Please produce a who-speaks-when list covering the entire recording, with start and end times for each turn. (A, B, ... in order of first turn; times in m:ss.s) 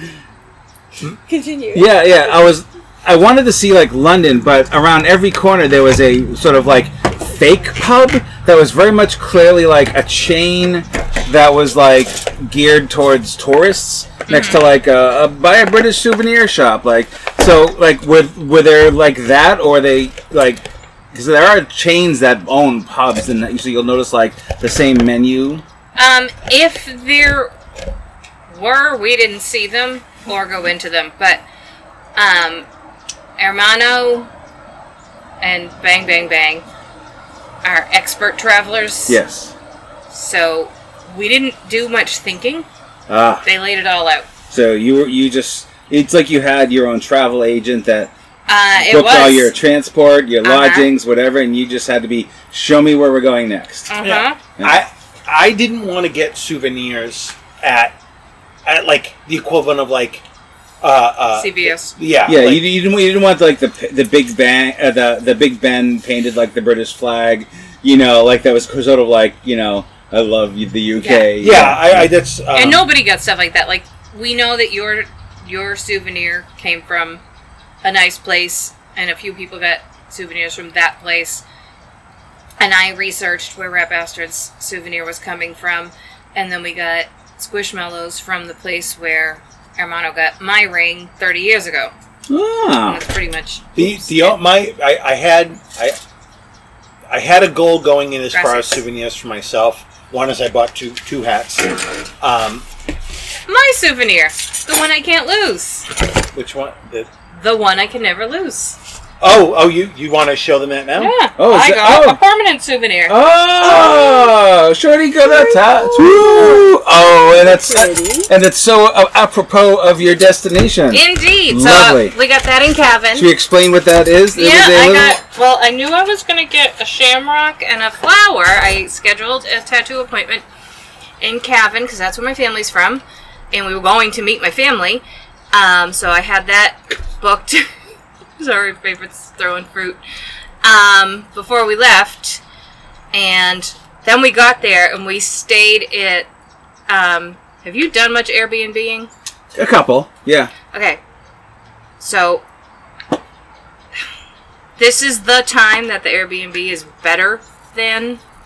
0:01.2-0:02.5 A
0:01.7-0:25.6 B
0:14.3-0:14.7 C
0:26.0-0:27.5 C
0:28.5-0:31.4 C
0:32.2-0:32.7 C
0:33.4-0:34.3 C
0:35.4-0:36.6 C
0:37.6-0:39.2 C
0:39.1-0:39.5 B
0:40.1-0:42.7 C
0:43.1-0:43.4 B
0:43.4-0:44.2 C
0:44.5-0:48.1 B
0:48.5-0:49.5 C
0:48.8-0:53.9 B
0:50.4-0:50.9 C
0:53.9-0:54.4 C
0:54.0-0:58.0 D
0:58.6-1:00.2 D
1:00.8-1:02.7 D
1:01.4-1:01.9 C
1:02.2-1:12.1 B
1:11.0-1:11.3 C
1:11.4-1:12.8 D
1:12.5-1:17.2 C
1:17.8-1:21.4 C
1:22.6-1:31.9 C
1:32.3-1:33.0 B
1:32.8-1:34.4 C
1:33.8-1:36.0 D
1:37.1-1:42.6 D
1:38.3-1:38.8 C
1:43.5-1:45.9 C
1:46.3-1:47.1 D
1:47.3-1:48.8 C
1:49.2-1:51.1 D
1:51.0-1:53.2 C
1:51.4-1:52.2 B
1:53.1-2:02.2 B
1:53.6-1:54.4 A
1:55.2-1:56.7 A
1:57.3-1:58.3 A
2:00.9-2:03.3 C
2:03.1-2:05.2 B
2:04.3-2:10.4 C
2:11.2-2:17.7 C
2:18.4-2:20.0 C
2:20.6-2:22.4 C
2:23.1-2:26.3 C
2:26.9-2:29.1 C
2:29.5-2:30.5 B
2:30.7-2:31.0 C
2:32.0-2:32.4 C
2:34.8-2:38.2 C